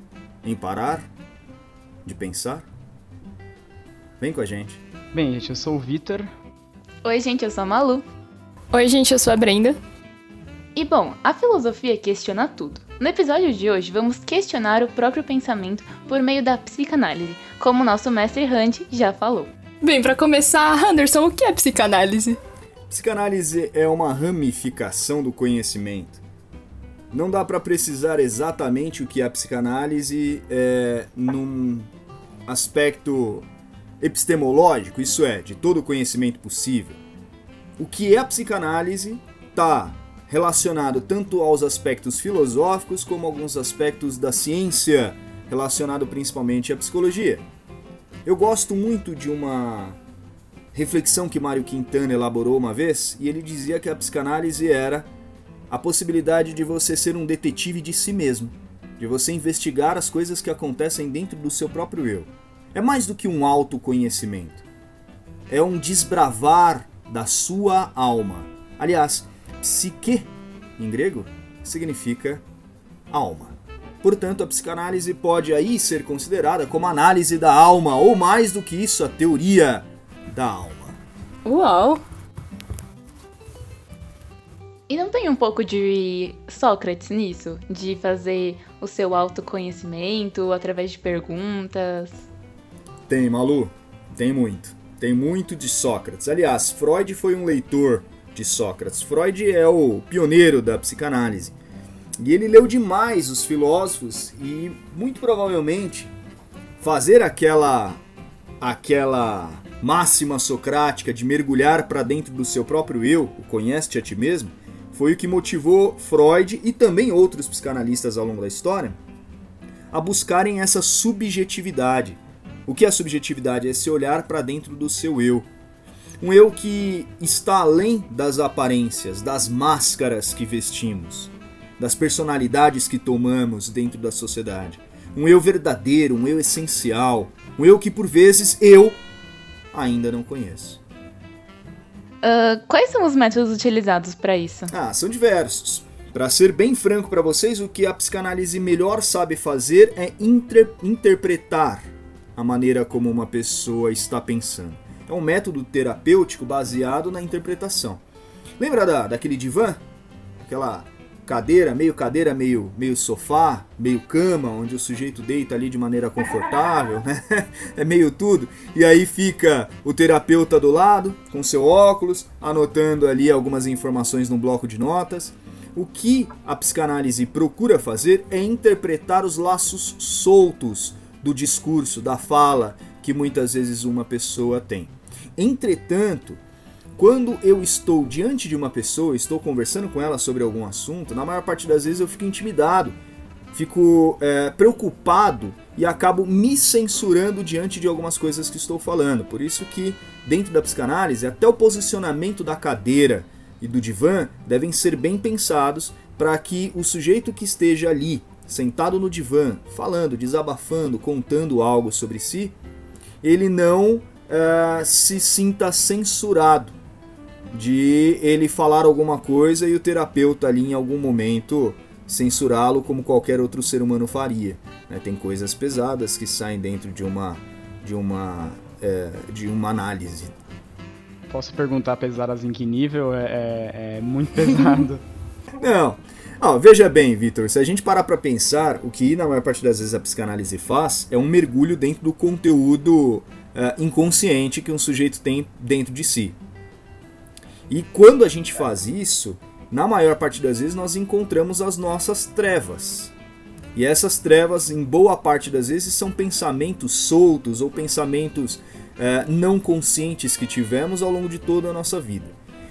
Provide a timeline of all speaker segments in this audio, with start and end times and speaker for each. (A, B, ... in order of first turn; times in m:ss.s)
0:00.4-0:01.1 A
0:02.0-0:02.7 A
0:04.2-0:04.8 A
0:05.1-0:06.3 B
0:07.0-0:08.0 C
0:08.7-0:09.8 D
0:10.7-0:19.5 C
0:19.8-0:22.4 D
0:22.9-0:26.2 A
0:27.1-0:31.9 A
0:32.4-0:33.5 A
0:34.0-0:37.0 A
0:37.8-0:47.4 A
0:48.2-0:50.0 A
0:50.7-0:55.1 A
0:55.7-1:04.6 A
1:05.5-1:12.4 A
1:13.1-1:21.0 A
1:21.4-1:22.0 D
1:24.9-1:32.2 C
1:33.1-1:41.5 A
1:42.2-1:46.1 A
1:46.8-1:48.0 A
1:48.6-1:59.0 A
1:59.9-2:05.5 A
2:06.2-2:19.0 A
2:19.7-2:20.8 A
2:22.2-2:24.7 C
2:24.7-2:38.0 A
2:38.6-2:39.8 A
2:40.4-3:06.4 A
3:07.0-3:13.0 A
3:13.5-3:32.6 A
3:33.2-3:36.8 A
3:37.5-3:50.3 A
3:51.3-3:55.0 B
3:55.6-4:06.4 A
4:07.7-4:13.1 A
4:13.7-4:22.3 A